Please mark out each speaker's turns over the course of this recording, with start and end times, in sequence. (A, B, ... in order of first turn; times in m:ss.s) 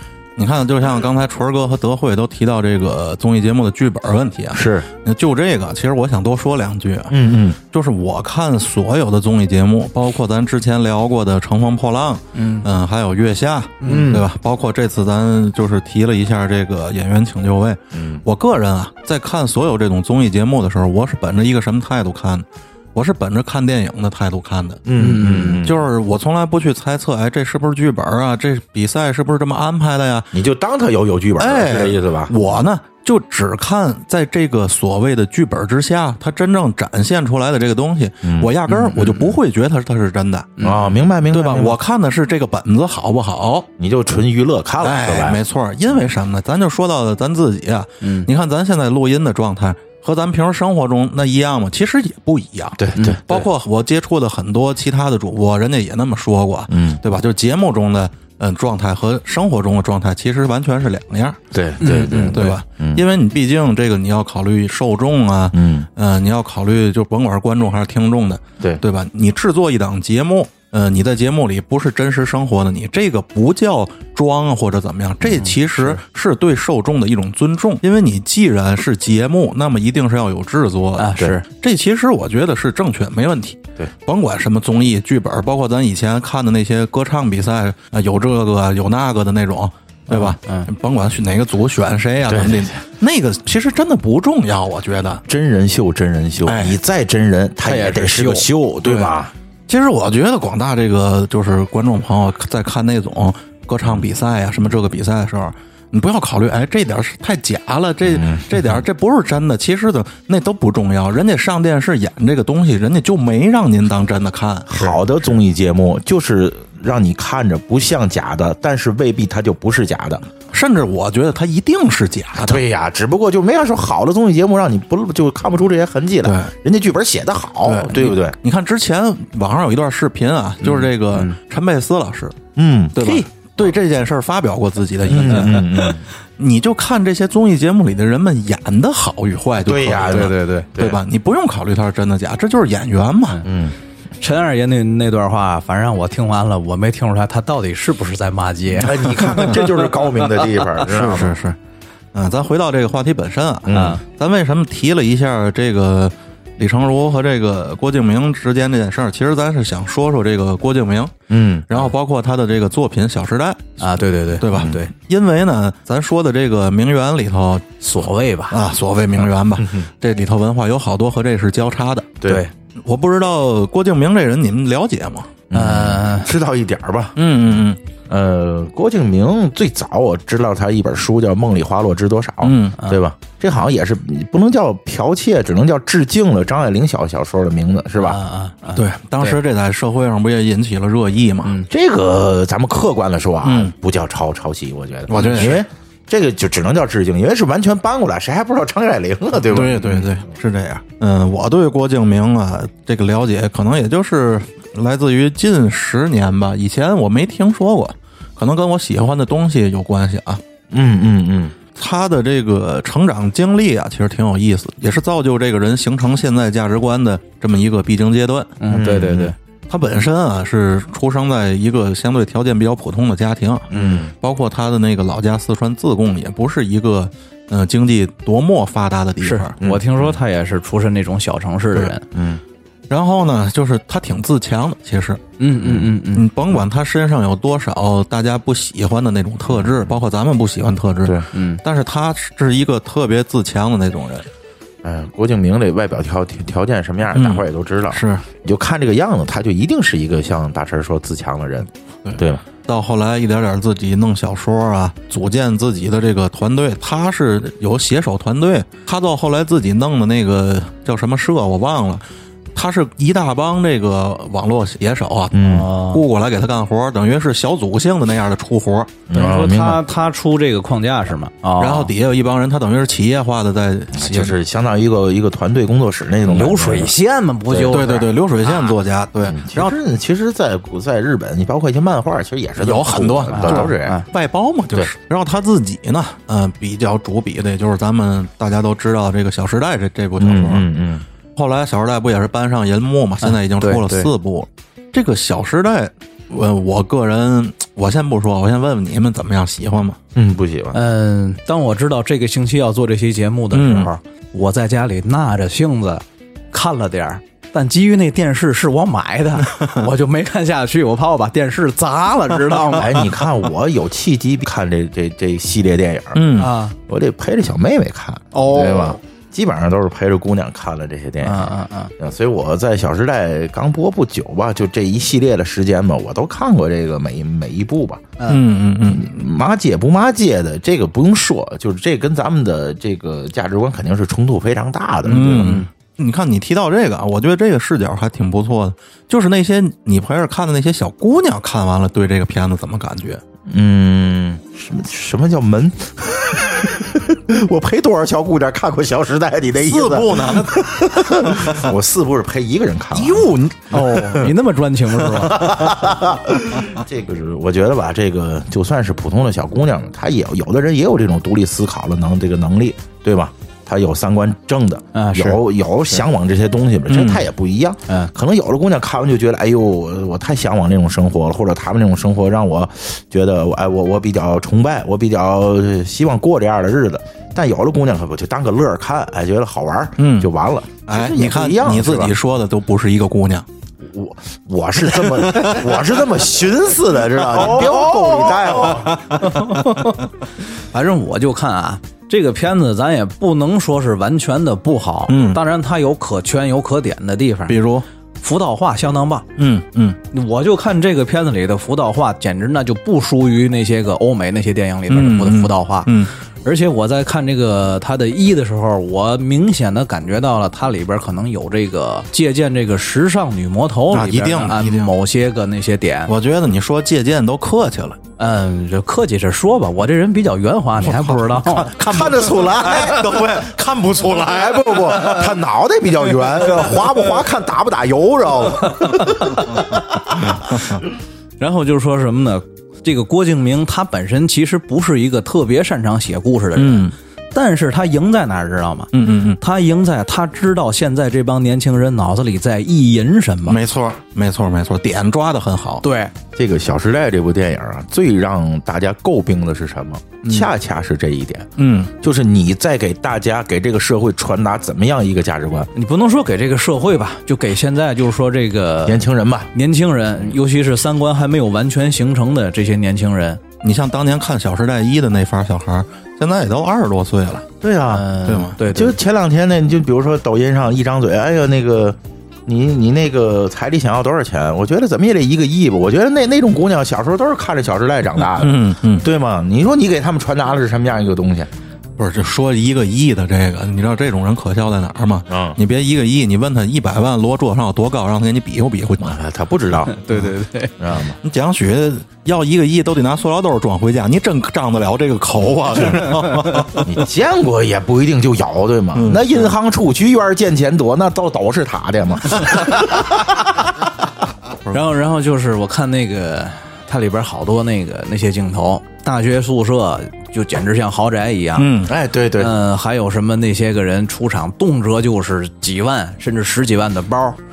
0:00.4-0:07.2 A
0:04.5-0:04.9 B
0:07.1-0:07.6 B
0:07.7-0:24.9 A
0:12.3-0:12.6 C
0:13.8-0:14.1 C
0:13.8-0:14.3 B
0:17.9-0:18.2 B
0:24.8-0:25.8 B
0:25.0-0:25.6 C
0:25.6-0:30.3 A
0:30.3-0:32.3 B
0:31.4-0:40.6 A
0:38.2-0:39.2 B
0:38.7-0:39.2 C
0:40.6-0:41.8 B
0:41.3-0:43.7 A
0:43.8-0:45.4 B
0:44.8-1:01.4 A
0:48.0-0:48.3 C
0:52.8-0:53.5 B
0:52.9-0:53.2 C
0:56.7-0:57.0 B
1:01.5-1:03.0 B
1:01.8-1:02.4 C
1:02.3-1:35.2 A
1:05.5-1:05.9 B
1:15.3-1:16.0 B
1:21.0-1:21.4 C
1:30.1-1:30.7 C
1:32.3-1:32.7 B
1:35.3-1:39.3 B
1:36.4-1:36.8 A
1:37.6-1:38.5 C
1:38.8-1:39.1 A
1:39.7-1:55.0 A
1:48.1-1:48.6 B
1:54.7-2:00.3 B
2:00.5-2:02.6 A
2:02.4-2:08.4 B
2:06.2-2:06.5 A
2:07.6-2:12.4 A
2:10.6-2:11.4 C
2:12.6-2:13.0 B
2:12.9-2:23.4 A
2:13.0-2:13.3 C
2:15.0-2:16.1 B
2:15.2-2:15.8 C
2:19.6-2:21.0 B
2:20.0-2:20.7 C
2:23.4-2:23.8 B
2:24.2-2:30.7 C
2:28.8-2:31.4 B
2:29.3-2:29.6 A
2:30.9-2:31.6 A
2:32.1-2:41.1 A
2:33.6-2:34.0 B
2:33.7-2:34.0 C
2:41.3-2:41.9 B
2:41.7-2:43.8 A
2:43.8-2:44.9 C
2:44.4-2:47.7 A
2:47.8-2:48.6 C
2:48.5-2:52.2 A
2:49.6-2:49.9 B
2:52.2-2:52.5 C
2:52.8-2:55.4 A
2:55.5-3:08.2 B
2:55.5-2:56.3 C
2:57.2-2:57.8 A
3:02.4-3:02.8 A
3:08.0-3:09.4 C
3:08.7-3:11.5 A
3:11.7-3:20.1 B
3:13.4-3:13.7 A
3:15.1-3:15.6 A
3:15.1-3:15.6 C
3:19.5-3:30.4 A
3:30.7-3:31.6 B
3:31.8-3:38.6 A
3:38.6-3:39.4 C
3:38.7-3:39.3 B
3:39.7-3:49.5 A
3:43.7-3:44.1 B
3:49.2-3:52.0 C
3:49.6-3:50.1 B
3:52.1-3:52.4 B
3:52.9-3:55.2 A
3:55.4-3:56.2 C
3:56.1-4:04.2 A
3:59.5-3:59.9 B
4:01.3-4:01.6 C
4:04.8-4:12.4 B
4:07.1-4:08.2 A
4:12.0-4:22.0 A
4:22.5-4:29.0 A
4:25.3-4:25.7 B
4:25.4-4:26.0 C
4:29.1-4:29.8 B
4:29.1-4:31.9 C
4:31.6-4:34.4 A
4:33.9-4:36.9 B
4:36.2-4:38.1 C
4:37.5-4:37.9 B
4:37.7-4:39.7 A
4:39.2-4:44.0 B
4:42.6-4:50.7 A
4:43.3-4:44.0 C
4:50.2-4:51.0 B
4:51.4-5:00.0 A
4:53.2-4:54.1 C
5:00.1-5:00.8 B
5:00.7-5:13.1 C
5:03.5-5:03.9 A
5:12.7-5:16.2 B
5:16.1-5:16.5 A
5:16.4-5:16.7 C
5:16.9-5:28.1 B
5:18.3-5:19.0 C
5:21.2-5:21.9 C
5:28.3-5:29.2 A
5:28.8-5:35.6 B
5:35.0-5:43.2 A
5:35.3-5:35.7 C
5:43.5-5:54.2 B
5:49.6-5:51.7 A
5:52.9-5:53.8 A
5:53.7-5:55.8 C
5:55.1-6:22.1 B
6:04.9-6:05.4 C
6:06.9-6:07.2 A
6:20.0-6:20.3 A
6:20.9-6:23.4 A
6:23.8-6:29.0 B
6:25.0-6:25.7 A
6:27.4-6:29.9 A
6:28.9-6:30.0 C
6:30.5-6:37.6 C
6:35.1-6:35.4 A
6:37.5-6:37.8 A
6:38.2-6:39.2 C
6:39.4-6:40.0 A
6:40.1-6:56.1 C
6:44.9-6:46.1 A
6:53.9-6:54.9 A
6:56.1-6:58.0 A
6:58.2-7:01.7 C
7:00.8-7:04.9 A
7:01.5-7:10.8 B
7:09.0-7:09.4 C
7:10.5-7:10.8 A
7:11.4-7:23.6 C
7:16.6-7:16.9 A
7:18.9-7:19.4 A
7:23.5-7:25.8 A
7:25.8-7:26.1 C
7:26.4-7:35.7 B
7:30.2-7:30.5 C
7:31.6-7:31.9 A
7:35.7-7:43.4 C
7:38.8-7:39.5 B
7:43.6-7:47.5 A
7:47.6-7:48.0 B
7:47.9-7:49.0 C
7:48.2-7:48.6 A
7:48.6-8:01.5 B
7:58.4-7:59.1 A
8:02.0-8:09.2 A
8:05.3-8:05.6 B
8:09.0-8:10.0 B
8:09.8-8:10.7 C
8:10.8-8:11.2 B
8:11.2-8:16.9 A
8:16.2-8:16.6 C
8:16.8-8:23.4 B
8:18.9-8:19.4 A
8:24.7-8:31.7 C
8:31.6-8:31.9 A
8:31.8-8:32.5 B
8:32.4-8:37.4 C